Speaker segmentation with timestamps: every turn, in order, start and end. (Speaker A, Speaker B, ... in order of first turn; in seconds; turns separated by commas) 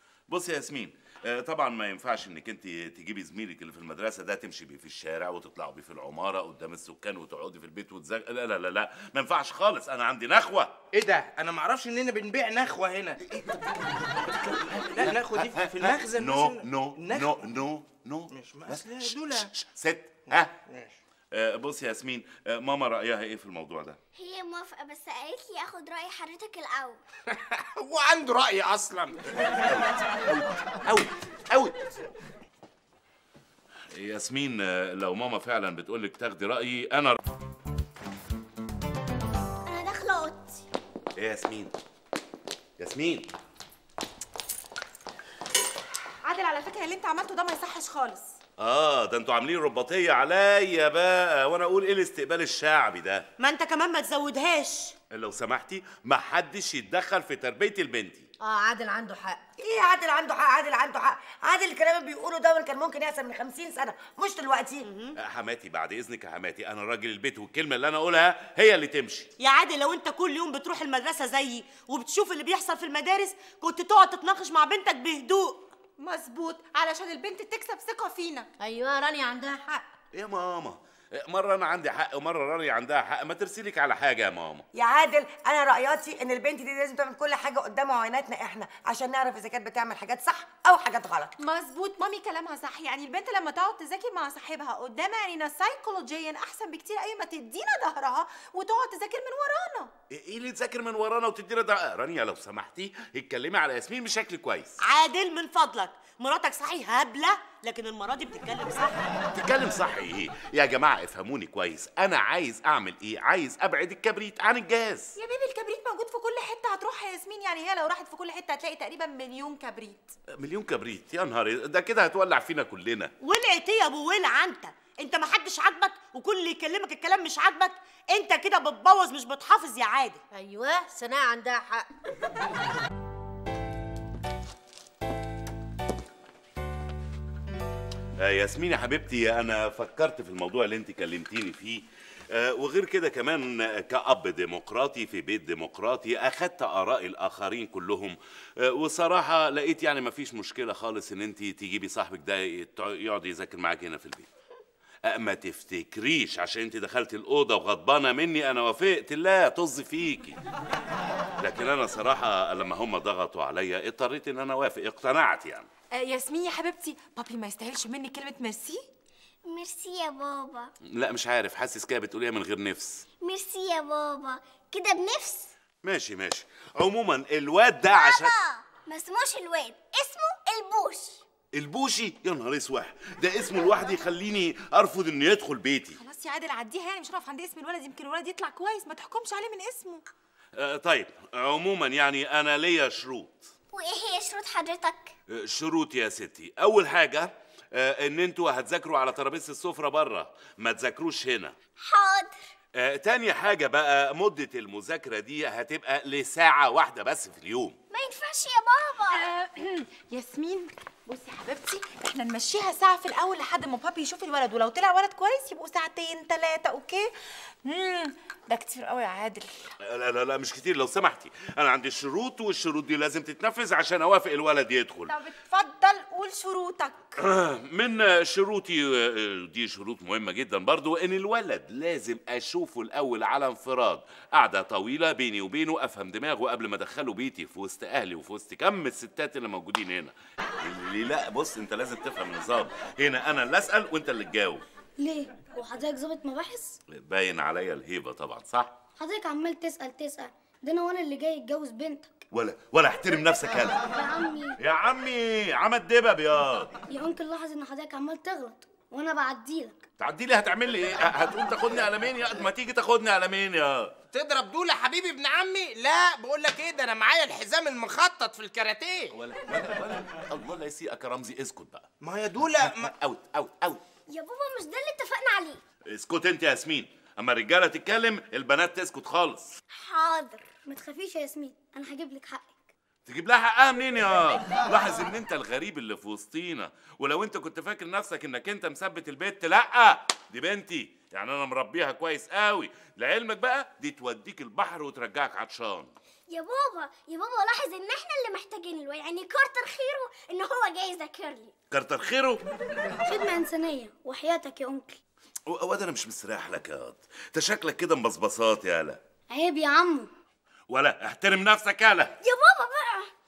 Speaker A: 0.3-10.8, Speaker B: 10.9-13.2, Speaker A: 13.2-20.5, Speaker B: 14.9-17.4, Speaker B: 18.3-19.5, Speaker B: 20.4-20.9, Speaker A: 21.3-24.0, Speaker C: 24.1-27.0, Speaker B: 27.3-29.2, Speaker A: 29.3-31.7, Speaker A: 33.9-37.2, Speaker C: 39.6-40.6, Speaker A: 41.2-41.7, Speaker A: 42.8-43.3, Speaker D: 46.2-48.3, Speaker A: 48.6-53.2, Speaker E: 53.4-54.9, Speaker A: 55.1-58.3, Speaker F: 58.4-59.4, Speaker G: 59.6-64.8, Speaker E: 64.8-65.1, Speaker A: 65.2-69.3, Speaker E: 69.4-75.7, Speaker D: 76.0-78.5, Speaker F: 78.6-79.8, Speaker A: 80.1-84.6, Speaker G: 84.7-91.3, Speaker D: 91.4-99.9, Speaker A: 100.1-104.8, Speaker E: 104.8-109.0, Speaker A: 109.3-115.1, Speaker D: 115.2-120.1, Speaker A: 120.3-123.1, Speaker E: 123.2-130.2, Speaker F: 130.3-131.9, Speaker A: 138.2-154.3, Speaker A: 155.1-160.4, Speaker A: 161.4-165.7, Speaker D: 165.9-168.8, Speaker C: 169.5-170.7, Speaker A: 170.9-173.0, Speaker C: 173.2-175.5, Speaker A: 175.8-178.3, Speaker C: 177.8-181.2, Speaker A: 181.5-186.0, Speaker D: 186.0-190.0, Speaker A: 190.6-193.5, Speaker C: 193.7-195.1, Speaker A: 195.3-201.5, Speaker C: 201.8-202.5, Speaker A: 202.7-207.8, Speaker C: 207.9-209.3, Speaker D: 209.1-217.1, Speaker D: 217.6-219.5, Speaker A: 219.8-225.1, Speaker D: 225.1-227.2, Speaker A: 227.2-244.6, Speaker H: 245.0-246.8, Speaker A: 246.9-248.7, Speaker H: 249.0-252.2, Speaker A: 252.3-253.8, Speaker H: 253.8-254.6, Speaker A: 254.6-256.7, Speaker H: 256.9-259.8, Speaker A: 260.0-263.9, Speaker B: 264.1-269.1, Speaker A: 269.1-273.8, Speaker B: 272.0-272.9, Speaker C: 274.1-275.6, Speaker A: 275.9-279.6, Speaker C: 279.7-280.4, Speaker H: 280.6-282.7, Speaker A: 283.1-295.9, Speaker C: 296.3-301.5, Speaker A: 301.7-302.4, Speaker H: 303.0-305.0, Speaker A: 305.5-309.0, Speaker H: 309.3-310.1, Speaker A: 310.7-312.1, Speaker C: 312.2-313.1